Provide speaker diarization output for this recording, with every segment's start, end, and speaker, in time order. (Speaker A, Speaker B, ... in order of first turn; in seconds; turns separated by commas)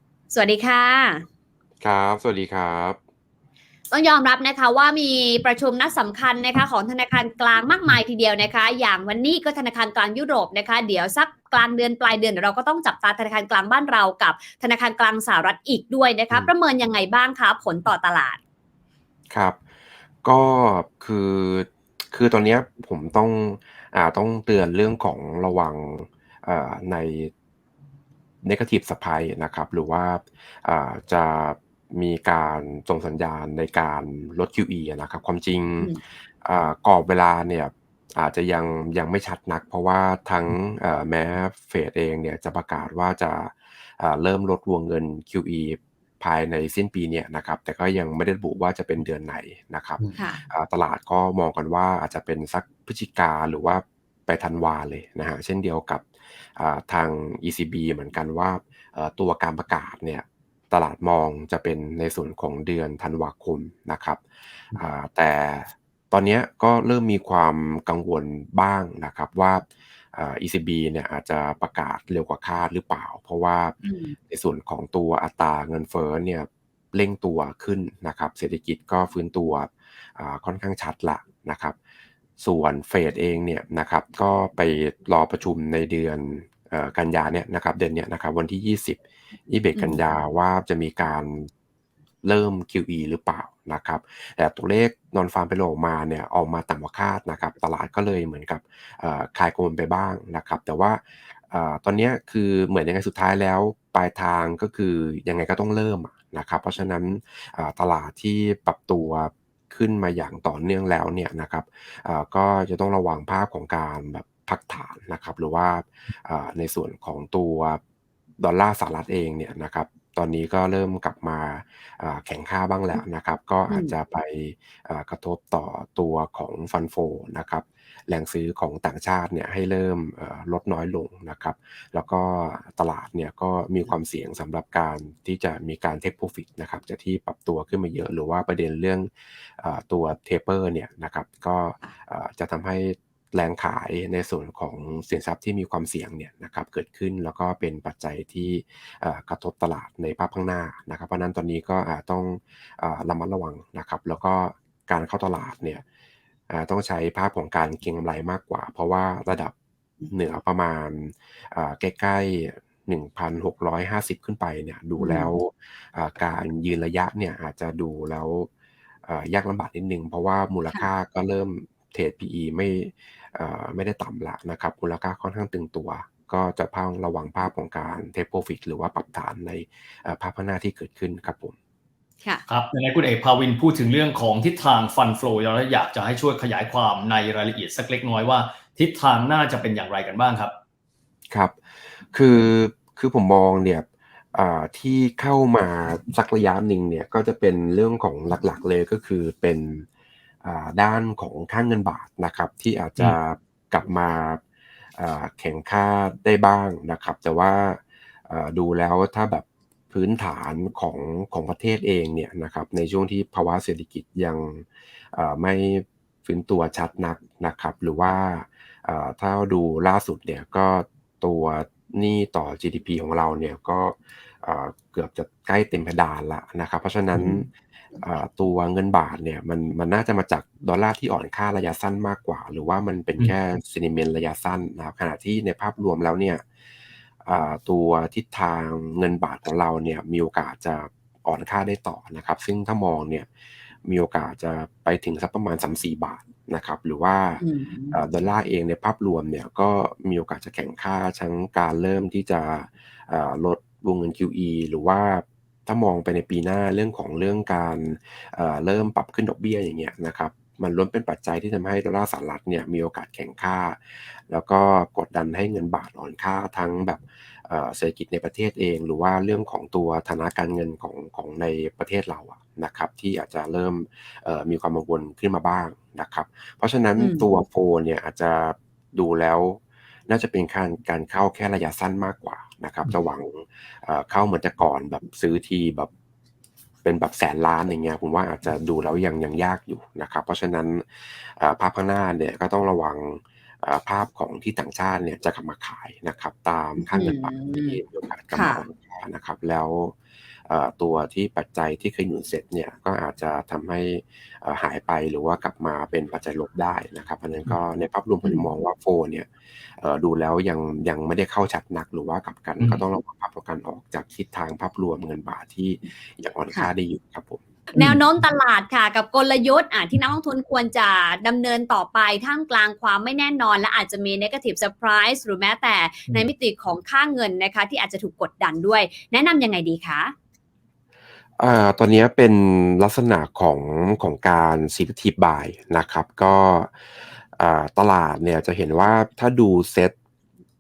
Speaker A: 0.3-1.2, Speaker B: 1.8-3.0, Speaker A: 3.9-18.4, Speaker B: 19.3-19.6, Speaker B: 20.2-27.3, Speaker B: 28.4-56.0, Speaker B: 56.6-64.2, Speaker B: 64.7-73.8, Speaker A: 73.8-74.1, Speaker B: 74.3-81.8, Speaker B: 82.4-91.5, Speaker B: 92.2-117.8, Speaker B: 118.4-155.8, Speaker A: 123.7-123.9, Speaker B: 156.5-159.5, Speaker B: 160.1-168.5, Speaker A: 165.0-165.3, Speaker B: 169.1-181.6, Speaker C: 182.5-190.5, Speaker B: 191.3-191.6, Speaker B: 192.1-199.8, Speaker B: 200.4-204.4, Speaker B: 205.0-227.5, Speaker C: 227.2-227.4, Speaker B: 228.0-236.4, Speaker B: 237.2-243.3, Speaker B: 243.8-285.9, Speaker A: 247.4-248.0, Speaker A: 277.0-277.2, Speaker B: 286.8-299.9, Speaker A: 296.8-297.8, Speaker A: 298.3-298.6, Speaker B: 300.5-309.3, Speaker B: 309.8-317.4, Speaker A: 317.7-330.1, Speaker B: 331.4-336.7, Speaker B: 337.4-339.9